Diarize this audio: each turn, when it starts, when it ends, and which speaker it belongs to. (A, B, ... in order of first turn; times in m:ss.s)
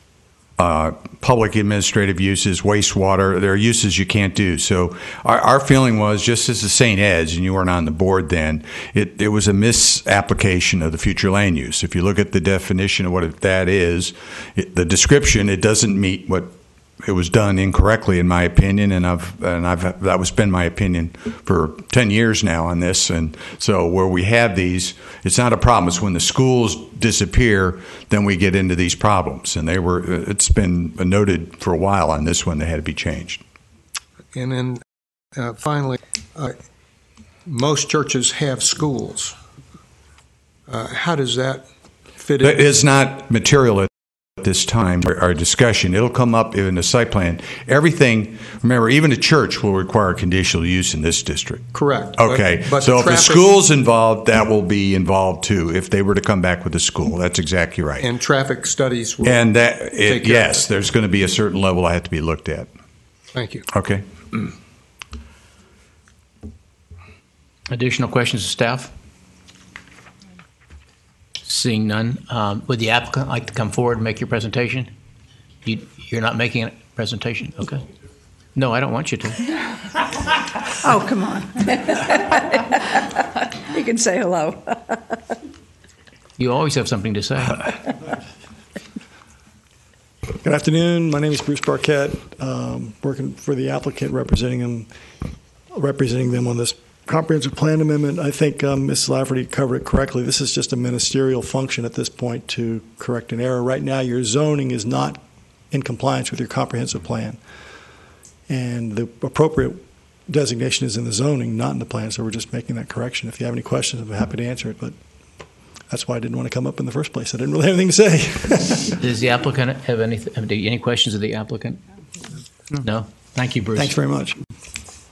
0:00.6-0:16.5 A
0:17.0-0:33.4 A
0:34.4-0:34.8 B
0:35.4-0:36.6 B
0:37.5-0:39.4 B
0:40.7-0:42.7 B
0:42.4-0:51.7 A
0:51.7-0:53.5 B
0:52.2-0:58.0 A
0:58.0-1:00.6 B
0:59.2-1:02.7 A
1:03.3-1:03.6 B
1:03.7-1:04.0 A
1:07.7-1:08.9 C
1:11.4-1:14.9 C
1:15.6-1:17.9 C
1:18.6-1:19.5 C
1:20.8-1:25.2 D
1:26.4-1:27.9 C
1:30.4-1:34.9 E
1:35.7-1:47.4 E
1:48.5-1:55.0 E
1:55.9-1:59.0 E
1:59.0-2:01.8 C
2:02.7-2:04.0 C
2:03.8-2:04.4 E